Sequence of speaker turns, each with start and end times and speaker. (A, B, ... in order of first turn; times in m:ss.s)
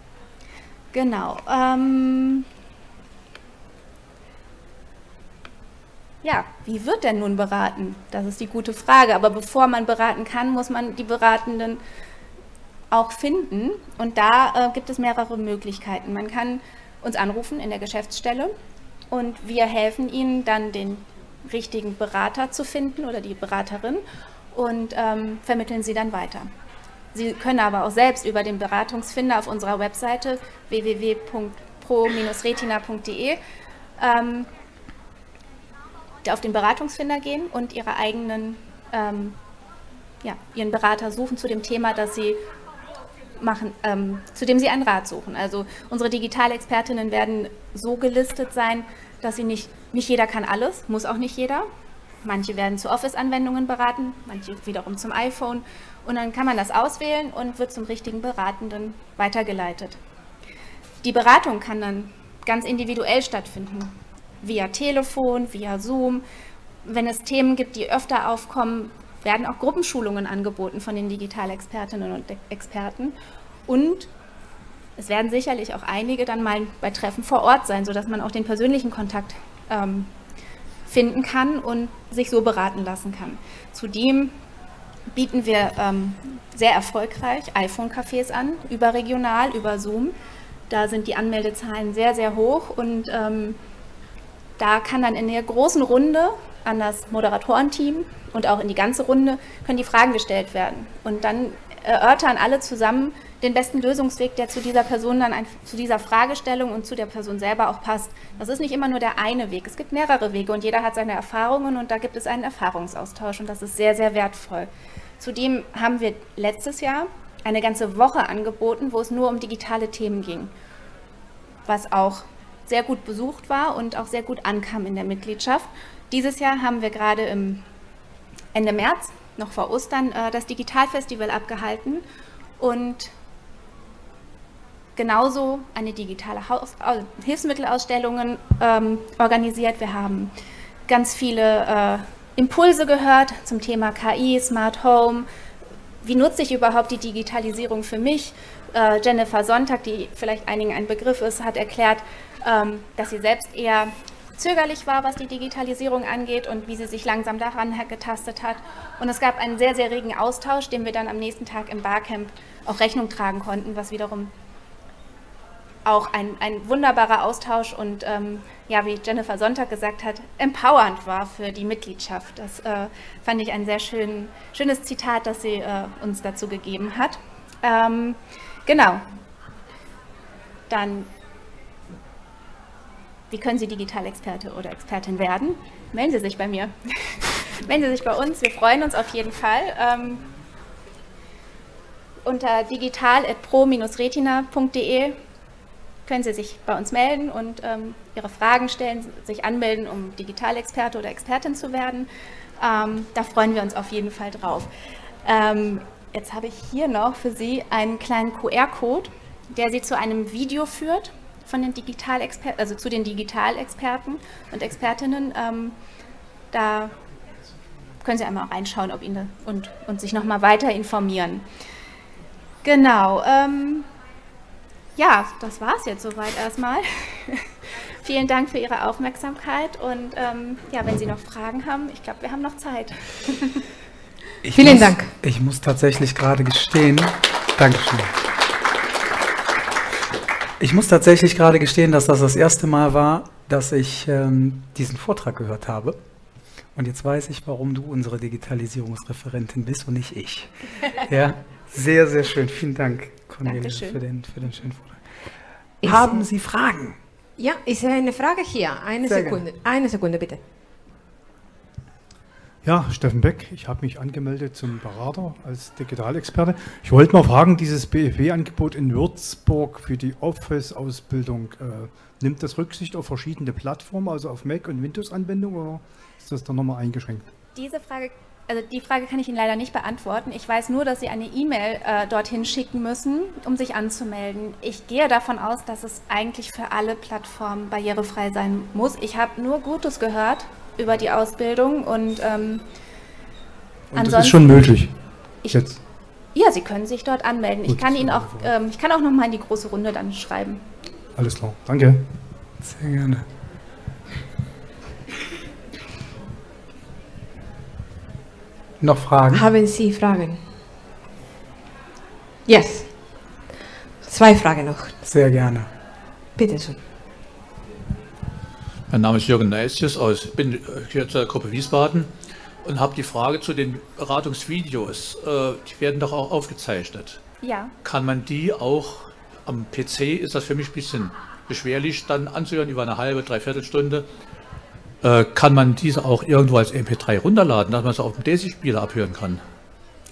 0:00.9-0:02.5 A
0:06.2-0:11.8 A
0:12.9-0:18.5 A
0:19.1-0:26.5 A
0:27.1-0:33.4 A
0:34.0-0:34.5 A
0:36.2-0:39.4 A
0:40.2-0:42.4 A
0:43.4-0:51.7 A
0:52.2-1:00.0 A
1:01.0-1:06.2 A
1:06.8-1:13.2 A
1:13.7-1:14.1 A
1:15.0-1:20.1 A
1:20.9-1:24.4 A
1:25.1-1:30.1 A
1:30.7-1:33.6 A
1:34.6-1:54.7 A
1:55.2-2:00.5 A
2:01.6-2:07.6 A
2:08.5-2:12.0 A
2:12.6-2:13.1 A
2:15.0-2:20.3 A
2:20.9-2:25.3 A
2:26.0-2:44.3 A
2:45.8-2:59.0 A
3:00.7-3:01.1 A
3:03.3-3:10.3 A
3:12.2-3:15.2 A
3:16.1-3:22.1 A
3:22.6-3:24.7 A
3:25.2-3:35.8 A
3:36.5-3:36.9 A
3:38.0-3:41.4 A
3:42.6-3:43.9 A
3:45.0-3:47.5 A
3:48.0-3:53.6 A
3:54.4-3:58.1 B
3:54.5-3:55.1 C
4:00.6-4:06.0 B
4:06.7-4:15.0 B
4:13.4-4:14.0 A
4:15.8-4:16.2 C
4:15.8-4:17.0 B
4:17.4-4:20.4 C
4:19.0-4:19.4 B
4:22.6-4:37.2 D
4:37.6-4:52.6 A
4:53.9-4:54.8 A
4:53.9-4:55.8 D
4:56.3-5:00.6 A
4:57.7-4:58.5 D
5:01.2-5:02.0 D
5:02.6-5:03.2 B
5:08.8-5:09.4 B
5:09.3-5:10.4 C
5:12.5-5:13.0 C
5:14.0-5:15.0 C
5:15.0-5:15.7 B
5:16.4-5:16.8 C
5:18.9-5:22.1 E
5:22.6-5:27.2 E
5:27.4-5:27.7 A
5:27.8-5:34.1 E
5:35.0-5:39.4 E